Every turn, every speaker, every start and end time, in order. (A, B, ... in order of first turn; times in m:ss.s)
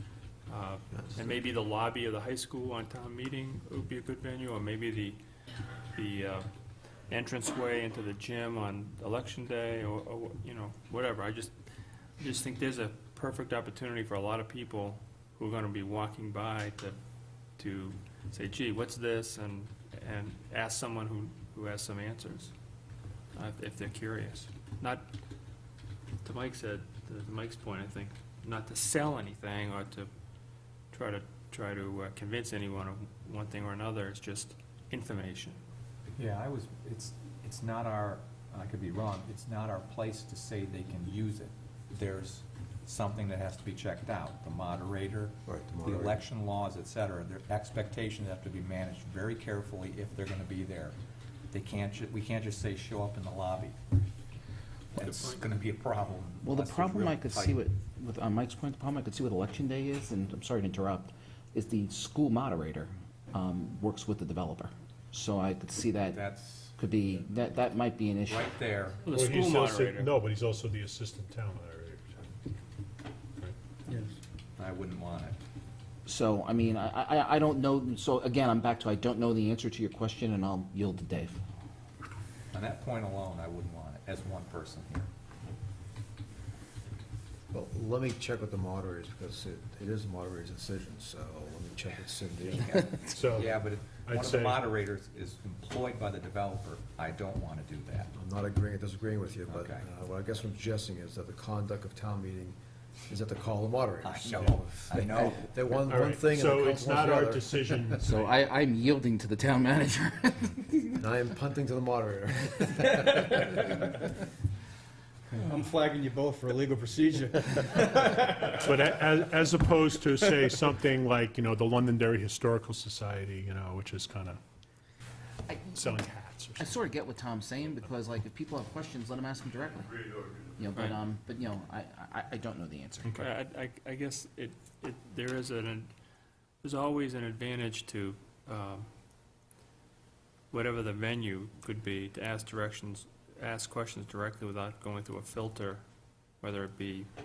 0:00.5-0:05.2 A
0:01.0-0:01.3 B
0:05.9-0:06.5 A
0:07.1-0:11.6 A
0:12.2-0:17.0 A
0:17.6-0:22.5 A
0:23.3-0:25.1 A
0:26.2-0:30.1 A
0:30.9-0:35.6 A
0:36.2-0:51.0 C
0:45.5-0:46.2 B
0:51.5-0:53.8 C
0:55.0-0:57.6 C
0:55.0-0:55.4 A
0:56.4-1:06.2 D
1:06.1-1:06.8 C
1:06.8-1:08.5 D
1:08.3-1:09.1 C
1:09.0-1:10.1 A
1:09.1-1:12.3 E
1:13.9-1:14.2 F
1:14.6-1:15.4 C
1:16.1-1:21.4 D
1:22.5-1:25.1 C
1:27.5-1:33.0 B
1:32.5-1:38.1 C
1:33.1-1:34.6 E
1:38.1-1:42.6 B
1:39.5-1:39.9 C
1:43.1-1:48.0 B
1:44.0-1:45.5 C
1:45.8-1:48.3 E
1:48.0-1:50.8 D
1:51.0-1:53.5 B
1:55.3-1:58.6 F
1:58.4-2:04.4 E
2:05.5-2:06.0 D
2:05.7-2:06.7 E
2:06.6-2:13.1 D
2:13.2-2:15.9 A
2:16.6-2:18.9 A
2:20.5-2:25.8 A
2:26.4-2:27.1 A